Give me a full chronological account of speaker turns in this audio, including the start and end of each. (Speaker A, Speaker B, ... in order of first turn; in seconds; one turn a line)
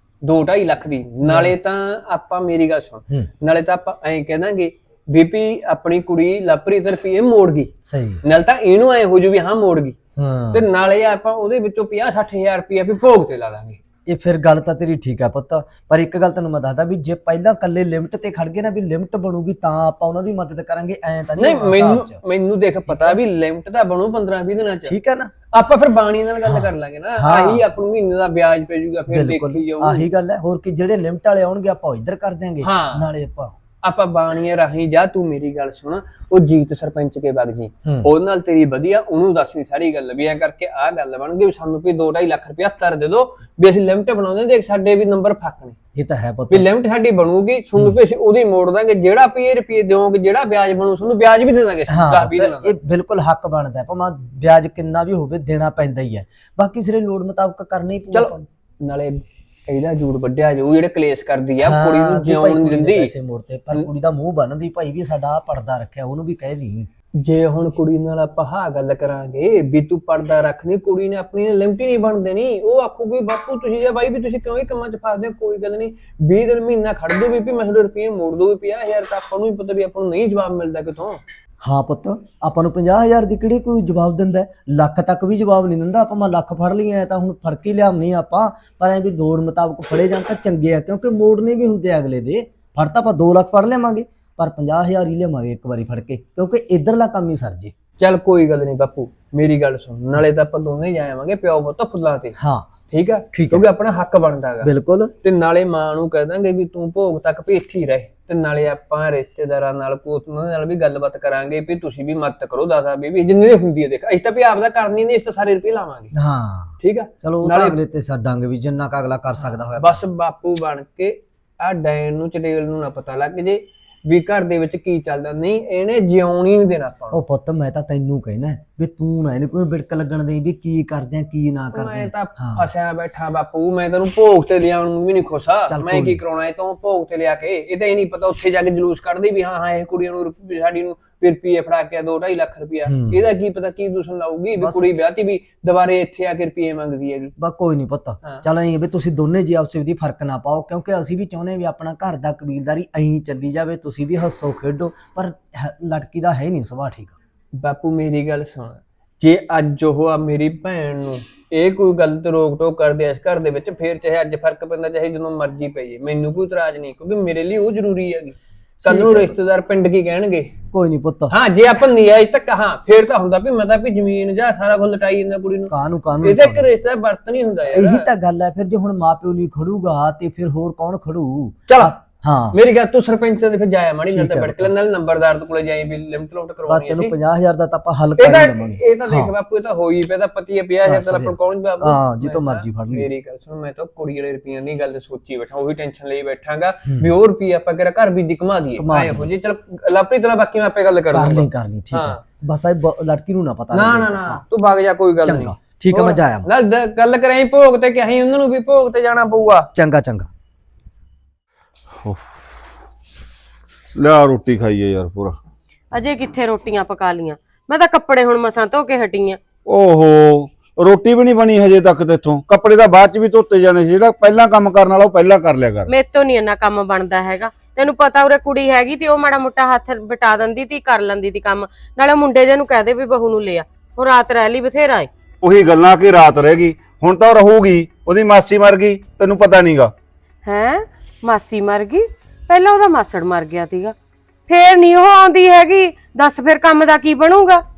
Speaker A: 0.2-7.7
Speaker B: 1.2-1.6
Speaker B: 7.9-8.2
Speaker A: 8.2-10.0
Speaker B: 10.2-10.7
Speaker A: 10.5-13.8
Speaker B: 14.1-22.2
Speaker A: 21.4-25.0
Speaker B: 22.9-23.2
Speaker B: 24.9-25.3
Speaker A: 25.5-30.1
Speaker B: 26.5-27.7
Speaker B: 29.1-33.5
Speaker A: 32.6-33.1
Speaker A: 33.8-45.8
Speaker B: 46.0-46.7
Speaker A: 46.5-52.7
Speaker B: 51.9-58.4
Speaker A: 58.1-63.1
Speaker B: 61.6-66.9
Speaker A: 67.2-81.2
Speaker B: 81.6-97.7
Speaker A: 98.0-102.4
Speaker B: 102.4-102.7
Speaker A: 102.9-104.7
Speaker B: 103.3-103.7
Speaker B: 104.6-105.1
Speaker A: 105.2-116.1
Speaker B: 116.1-120.0
Speaker A: 116.8-117.8
Speaker A: 119.4-127.2
Speaker B: 127.1-132.7
Speaker A: 131.7-147.3
Speaker B: 135.7-136.2
Speaker B: 142.9-143.2
Speaker B: 144.6-144.9
Speaker B: 147.4-157.2
Speaker A: 157.6-170.5
Speaker B: 168.8-169.3
Speaker B: 170.7-171.3
Speaker A: 171.3-178.1
Speaker B: 175.7-176.7
Speaker B: 177.7-182.6
Speaker A: 181.7-181.9
Speaker A: 182.5-187.2
Speaker B: 184.1-184.7
Speaker B: 186.7-189.3
Speaker A: 188.2-202.2
Speaker B: 190.8-193.1
Speaker B: 198.8-199.3
Speaker B: 201.1-204.4
Speaker A: 203.7-209.7
Speaker B: 205.2-206.5
Speaker B: 209.8-210.3
Speaker C: 214.0-215.4
Speaker D: 215.9-219.4
Speaker C: 219.7-225.9
Speaker D: 225.9-235.1
Speaker C: 235.4-239.9
Speaker D: 240.4-243.9
Speaker D: 244.5-247.6